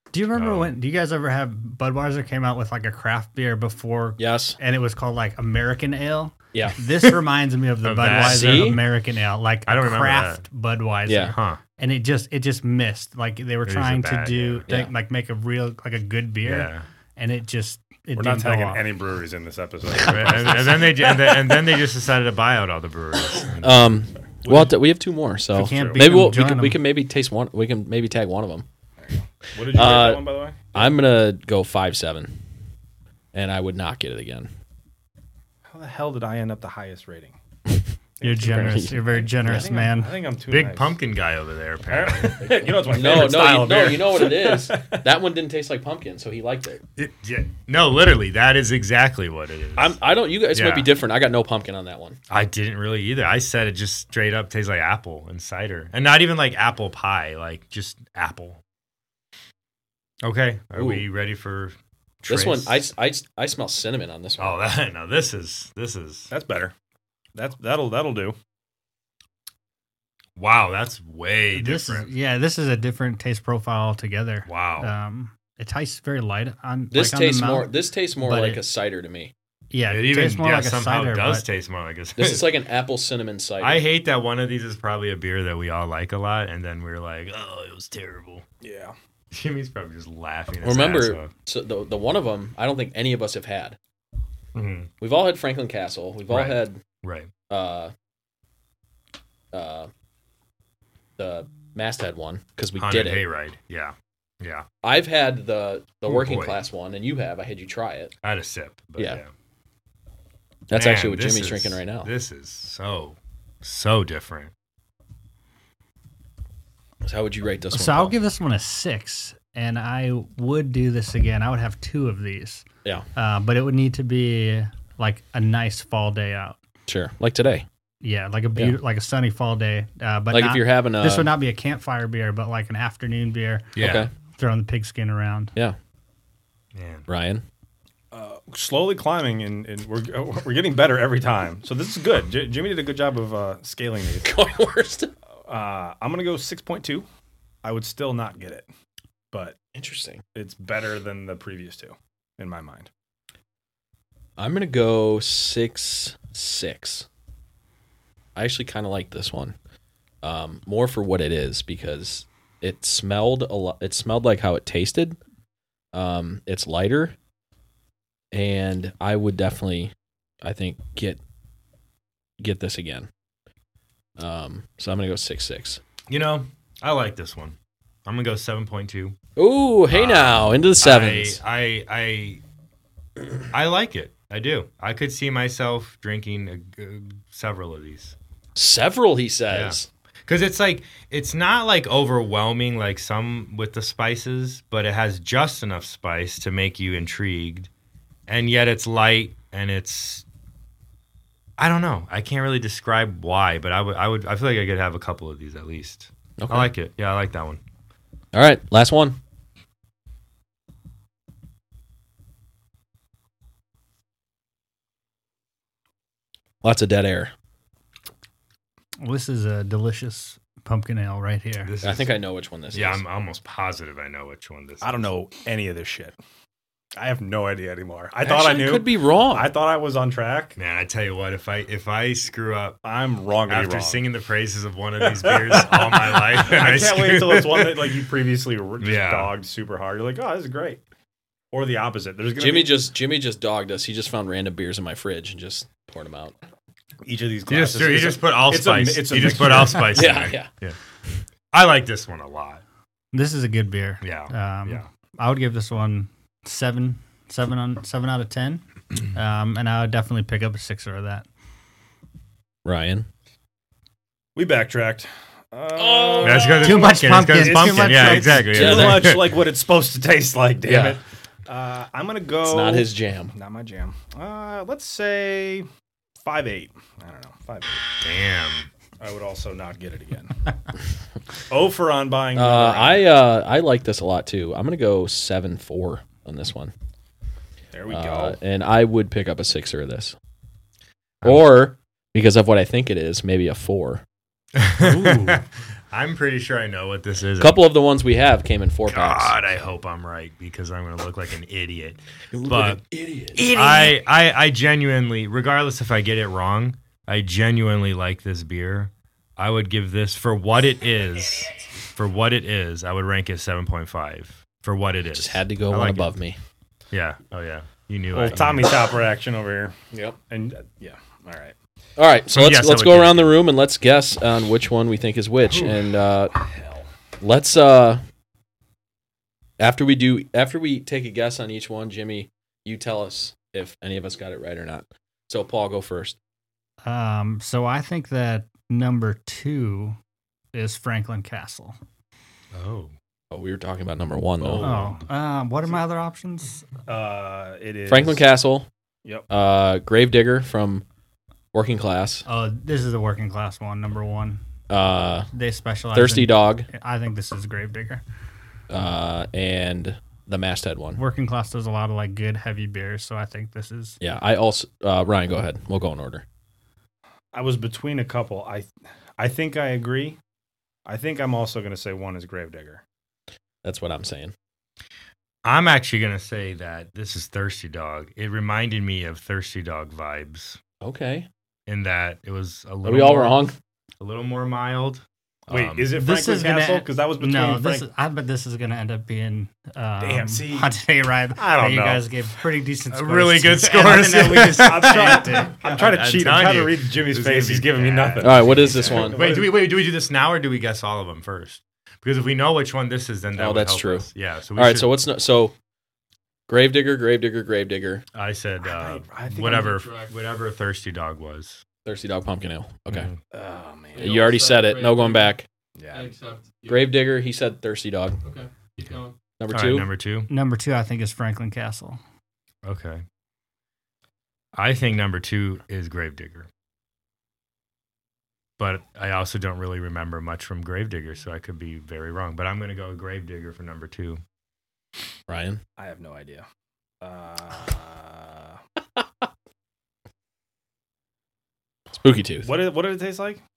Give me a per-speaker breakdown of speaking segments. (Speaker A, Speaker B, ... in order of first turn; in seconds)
Speaker A: 0.1-18.8, 25.5-26.8, 38.2-40.1, 71.5-78.6, 79.7-81.4, 117.7-122.6, 123.2-126.6, 128.0-135.5, 219.0-221.7, 253.1-261.3, 266.6-268.5, 336.8-340.0, 340.5-341.8, 344.6-346.6, 352.2-354.4, 355.3-358.0, 361.0-364.0, 385.9-395.8, 420.3-422.0
Speaker B: 0.3-0.7, 7.8-8.8, 9.7-10.4, 11.3-11.6, 13.7-14.7, 16.4-16.8, 20.0-23.9, 25.6-26.0, 40.5-42.6, 47.0-50.0, 50.5-50.9, 52.3-58.6, 60.2-62.8, 64.4-66.3, 70.3-72.1, 74.5-74.9, 79.9-82.5, 83.6-88.4, 89.3-91.3, 94.5-94.9, 96.3-97.3, 102.8-104.7, 106.0-106.6, 108.2-109.3, 110.7-114.5, 133.8-134.1, 136.7-137.1, 176.1-179.2, 179.9-182.4, 183.5-188.2, 189.5-197.7, 198.3-200.2, 201.6-207.6, 221.6-222.1, 222.7-225.1, 230.6-232.8, 233.4-238.0, 238.8-239.3, 247.5-250.8, 251.5-252.6, 254.0-254.8, 266.2-269.3, 278.0-278.7, 291.2-291.6, 294.5-297.6, 298.9-302.8, 303.4-316.1, 316.9-318.8, 322.3-323.4, 342.5-342.9, 375.4-380.6, 381.7-383.4, 384.0-385.9, 392.9-404.9, 408.1-411.6, 412.9-413.2, 419.5-420.3, 422.6-423.0, 424.5-426.5, 428.6-434.2
Speaker C: 4.2-4.6, 6.5-6.8, 8.2-8.8, 11.1-11.3, 14.7-14.9, 19.9-21.3, 23.5-28.6, 29.7-32.4, 33.3-34.5, 38.4-39.7, 42.4-46.8, 49.8-52.2, 60.7-61.0, 62.3-64.6, 76.9-79.3, 82.2-83.8, 90.6-93.8, 95.0-96.8, 97.5-97.9, 99.5-99.9, 101.2-103.2, 104.8-108.1, 109.0-109.2, 110.7-112.1, 117.0-118.1, 126.9-127.7, 130.3-131.3, 133.8-134.1, 137.1-137.4, 144.2-145.1, 149.7-150.2, 154.4-157.1, 158.3-159.5, 160.2-165.2, 165.9-167.2, 168.3-171.2, 172.4-173.1, 174.2-175.8, 179.3-181.4, 188.5-189.9, 206.4-206.7, 208.3-209.2, 216.6-217.3, 221.8-223.0, 228.2-229.5, 242.4-246.3, 249.9-250.5, 262.6-263.1, 265.7-266.7, 268.4-269.1, 270.6-271.0, 272.4-273.3, 282.3-286.7, 287.9-290.1, 291.2-294.0, 297.4-299.4, 302.3-303.9, 315.1-316.4, 319.9-320.2, 322.0-326.3, 327.2-328.0, 329.6-336.2, 343.3-344.8, 347.9-348.7, 349.3-350.8, 351.5-352.2, 354.7-355.3, 355.9-356.7, 358.7-361.0, 364.0-366.2, 373.6-374.3, 380.8-381.3, 382.8-383.6, 398.2-399.2, 403.4-405.5, 406.5-408.0, 411.8-413.1, 414.0-415.5, 416.7-418.2, 419.4-419.9, 435.3-435.6, 441.9-442.5
Speaker D: 18.1-20.9, 24.4-24.8, 29.0-30.9, 35.7-37.4, 38.2-40.9, 41.9-45.0, 66.3-66.7, 67.3-68.3, 88.6-88.9, 138.1-144.3, 145.4-147.1, 147.6-148.7, 149.3-149.6, 150.3-152.9, 224.8-226.1, 227.0-230.6, 232.8-234.0, 235.0-240.8, 241.5-242.8, 247.0-250.1, 264.3-275.6, 276.2-277.8, 279.0-280.5, 281.5-283.0, 287.7-288.4, 318.1-319.8, 320.3-321.6, 326.4-326.8, 344.4-345.0, 346.9-348.2, 367.3-370.2, 370.9-372.8, 385.5-387.9, 390.0-390.7, 391.4-392.1, 393.8-399.6, 408.6-409.8, 413.3-414.3, 415.8-416.1, 435.8-436.4, 437.0-438.6, 442.4-443.4
Speaker E: 409.5-410.1, 413.9-415.3, 415.9-416.9, 418.2-419.1